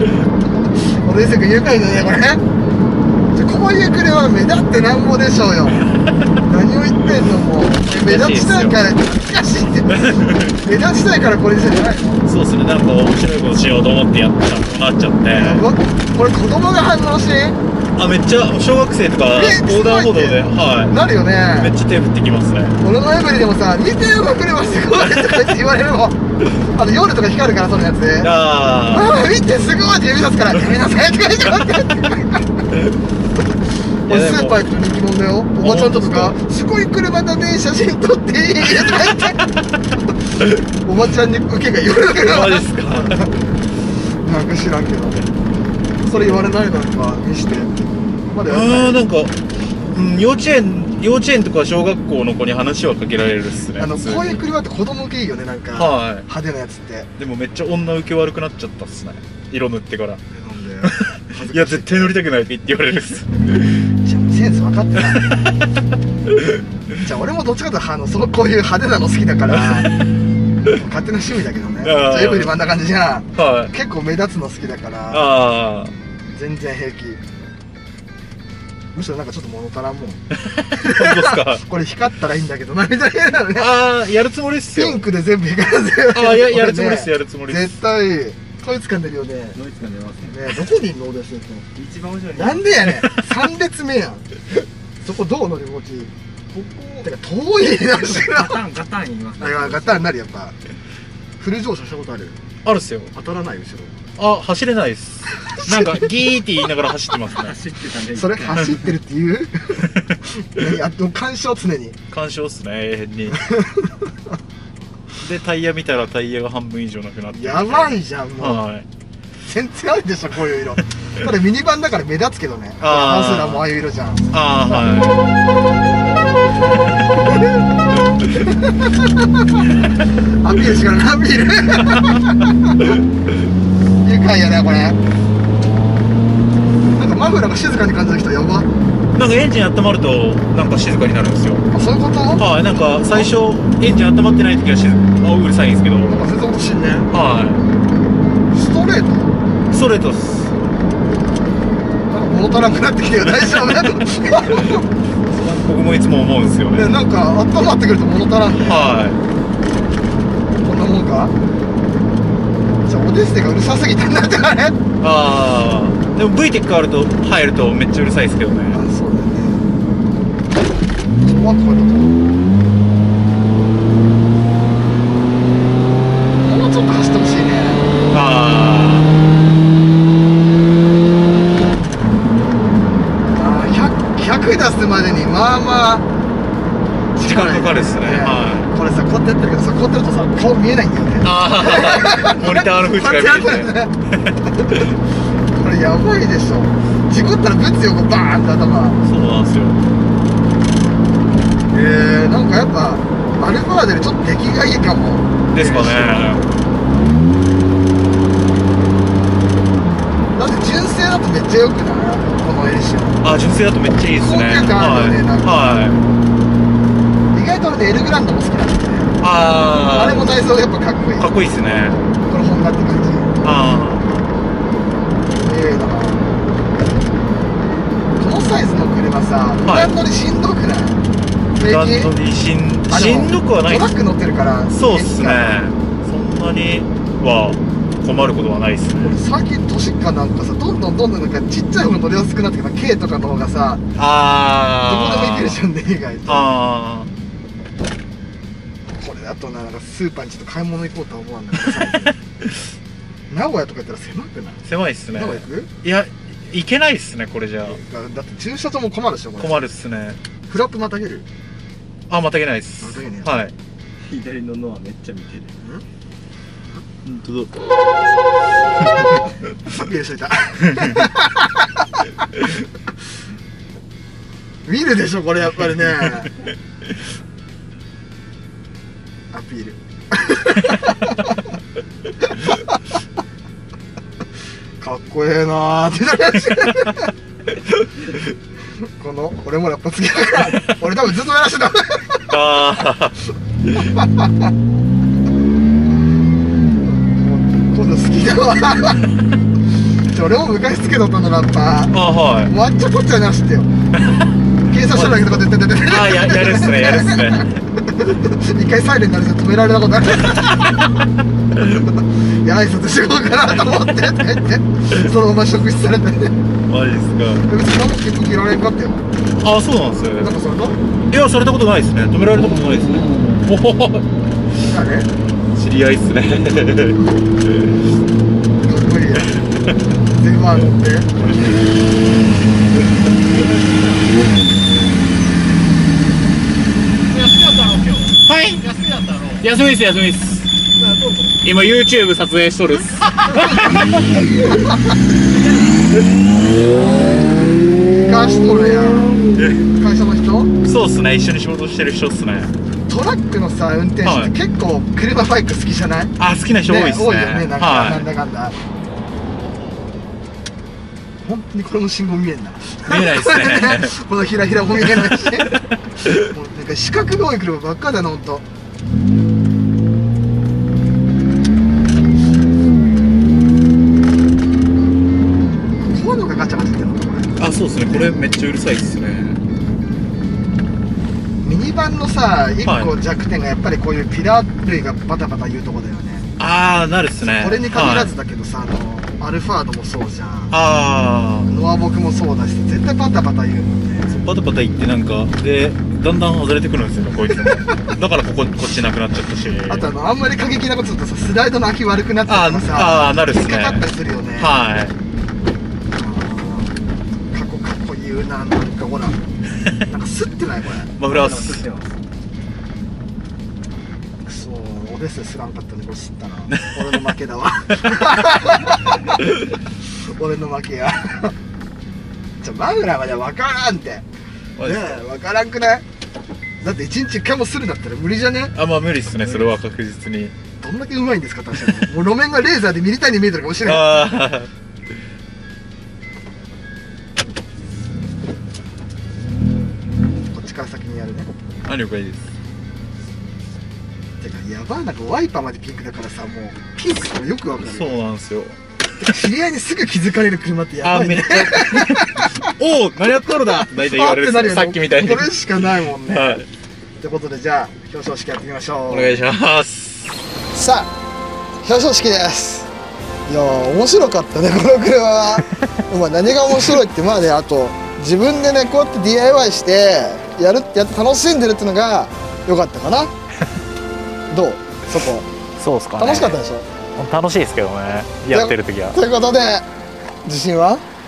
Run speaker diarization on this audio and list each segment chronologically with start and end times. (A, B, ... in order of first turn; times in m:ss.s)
0:01.0-0:02.4 A
0:03.3-0:05.8 A
0:05.7-0:06.3 B
0:06.4-0:12.2 A
0:07.9-0:08.8 B
0:09.9-0:10.6 B
0:12.2-0:15.7 B
0:15.3-0:17.6 A
0:18.0-0:21.0 B
0:19.3-0:21.8 A
0:21.6-0:22.8 B
0:22.8-0:26.2 A
0:26.7-0:28.3 A
0:28.2-0:29.1 B
0:28.9-0:32.5 A
0:34.1-0:34.6 B
0:34.1-0:39.5 A
0:35.6-0:36.4 B
0:40.8-0:43.4 A
0:42.3-0:43.3 B
0:44.2-0:45.3 A
0:46.0-0:46.5 B
0:46.0-0:49.0 A
0:48.5-0:49.4 B
0:49.9-0:54.4 B
0:53.8-0:57.1 A
0:55.7-0:56.3 B
0:57.2-1:00.2 B
1:00.3-1:02.2 A
1:00.8-1:03.8 B
1:04.0-1:05.4 A
1:05.1-1:05.7 B
1:06.3-1:06.6 B
1:07.0-1:09.9 A
1:09.6-1:09.9 B
1:10.7-1:15.2 A
1:11.8-1:12.6 B
1:13.3-1:13.7 B
1:15.1-1:15.9 B
1:16.3-1:17.2 A
1:18.9-1:23.7 A
1:20.4-1:21.6 B
1:23.6-1:25.0 B
1:24.7-1:29.6 A
1:26.1-1:27.7 B
1:29.5-1:30.4 C
1:30.3-1:31.7 A
1:31.8-1:32.6 C
1:32.3-1:34.3 A
1:35.0-1:36.1 A
1:36.5-1:37.1 C
1:37.0-1:38.6 A
1:38.0-1:40.1 C
1:39.4-1:40.5 A
1:41.4-1:42.4 A
1:42.6-1:43.1 B
1:43.1-1:44.0 A
1:44.2-1:47.6 B
1:45.3-1:46.0 A
1:47.3-1:48.9 C
1:48.1-1:52.0 A
1:52.1-1:53.4 B
1:53.4-1:54.0 A
1:55.2-1:58.9 B
1:57.3-1:58.6 A
1:59.4-2:04.8 A
2:02.8-2:03.6 B
2:04.3-2:05.3 B
2:08.3-2:12.8 A
2:14.0-2:15.0 A
2:16.9-2:18.7 A
2:19.1-2:21.7 B
2:21.7-2:23.3 A
2:22.4-2:26.3 B
2:26.0-2:27.1 A
2:27.1-2:27.6 B
2:28.5-2:29.4 A
2:29.7-2:30.5 B
2:32.1-2:34.9 A
2:33.4-2:36.9 B
2:36.7-2:39.0 A
2:38.5-2:39.2 B
2:40.6-2:41.3 A
2:42.8-2:44.8 A
2:45.0-2:48.8 B
2:48.7-2:49.6 A
2:51.2-2:52.2 A
2:56.4-2:57.9 A
2:58.1-2:59.1 B
3:03.3-3:06.0 A
3:07.2-3:13.9 A
3:07.2-3:08.7 B
3:11.2-3:14.9 B
3:14.5-3:15.0 A
3:15.5-3:19.0 A
3:19.0-3:19.8 B
3:21.7-3:26.4 A
3:25.5-3:26.4 B
3:30.3-3:33.2 A
3:33.2-3:36.1 B
3:34.2-3:35.8 A
3:37.3-3:39.1 A
3:39.2-3:40.3 B
3:39.9-3:43.4 A
3:41.2-3:42.0 B
3:43.4-3:44.2 B
3:45.3-3:46.4 A
3:48.2-3:51.0 A
3:49.6-3:49.9 B
3:51.5-3:52.1 A
3:51.6-3:54.0 B
3:52.9-3:55.6 A
3:54.7-3:59.2 B
3:59.0-4:03.8 A
4:03.9-4:05.6 B
4:04.8-4:06.5 A
4:06.3-4:07.1 B
4:09.0-4:12.2 A
4:13.3-4:15.7 A
4:14.6-4:17.8 B
4:17.6-4:19.6 A
4:19.4-4:20.2 B
4:20.5-4:21.3 A
4:22.1-4:23.5 B
4:22.8-4:23.3 A
4:24.0-4:25.5 C
4:27.0-4:27.5 B
4:29.7-4:32.2 A
4:30.7-4:31.1 B
4:34.6-4:36.3 A
4:39.3-4:41.4 A
4:42.2-4:42.8 A
4:44.8-4:47.1 A
4:49.0-4:52.4 A
4:50.4-4:50.8 B
4:52.3-4:53.2 B
4:53.8-4:54.5 A
4:56.8-4:59.1 A
5:00.0-5:03.7 A
5:01.9-5:02.5 B
5:03.9-5:04.3 B
5:04.6-5:10.9 A
5:04.9-5:07.5 B
5:10.4-5:10.8 B
5:11.7-5:16.4 A
5:16.7-5:17.5 B
5:17.4-5:19.0 A
5:19.4-5:20.3 B
5:20.2-5:20.8 A
5:21.1-5:24.0 B
5:24.6-5:25.1 A
5:25.5-5:27.7 B
5:28.6-5:29.4 A
5:29.3-5:29.7 B
5:30.2-5:31.1 A
5:37.3-5:40.5 B
5:41.2-5:44.1 B
5:48.0-5:49.2 A
5:49.3-5:49.6 B
5:49.8-5:50.5 A
5:50.6-5:52.5 B
5:52.9-5:58.6 A
5:54.0-5:54.3 B
5:56.2-5:58.1 B
6:01.2-6:08.4 A
6:02.8-6:03.9 B
6:04.8-6:06.2 B
6:15.8-6:17.3 A
6:17.4-6:19.4 B
6:21.4-6:26.3 A
6:22.6-6:22.9 B
6:26.4-6:28.1 B
6:27.2-6:30.6 A
6:30.5-6:31.5 B
6:31.4-6:34.2 A
6:34.1-6:39.9 B
6:39.7-6:44.5 A
6:42.3-6:43.8 B
6:44.4-6:44.9 B
6:45.9-6:46.7 A
6:47.3-6:49.2 A
6:49.8-6:50.9 A
6:51.0-6:51.6 B
6:51.0-6:52.0 C
6:54.2-6:59.2 A
7:00.1-7:01.3 A
7:02.4-7:04.1 A
7:04.6-7:05.0 B
7:04.6-7:05.8 A
7:06.6-7:08.5 A
7:08.5-7:10.3 B
7:10.6-7:14.1 A
7:13.6-7:14.5 B
7:20.3-7:21.3 A
7:21.6-7:22.3 B
7:24.2-7:28.0 A
7:27.6-7:28.6 B
7:29.0-7:32.5 A
7:30.8-7:36.5 B
7:33.5-7:36.4 A
7:37.0-7:39.3 A
7:38.9-7:40.2 B
7:40.5-7:40.9 A
7:41.6-7:42.7 A
7:43.3-7:53.1 A
7:54.3-7:55.3 A
7:55.6-7:56.4 B
7:56.0-7:56.6 A
7:57.0-7:59.0 B
7:58.3-7:59.6 A
8:00.2-8:00.8 A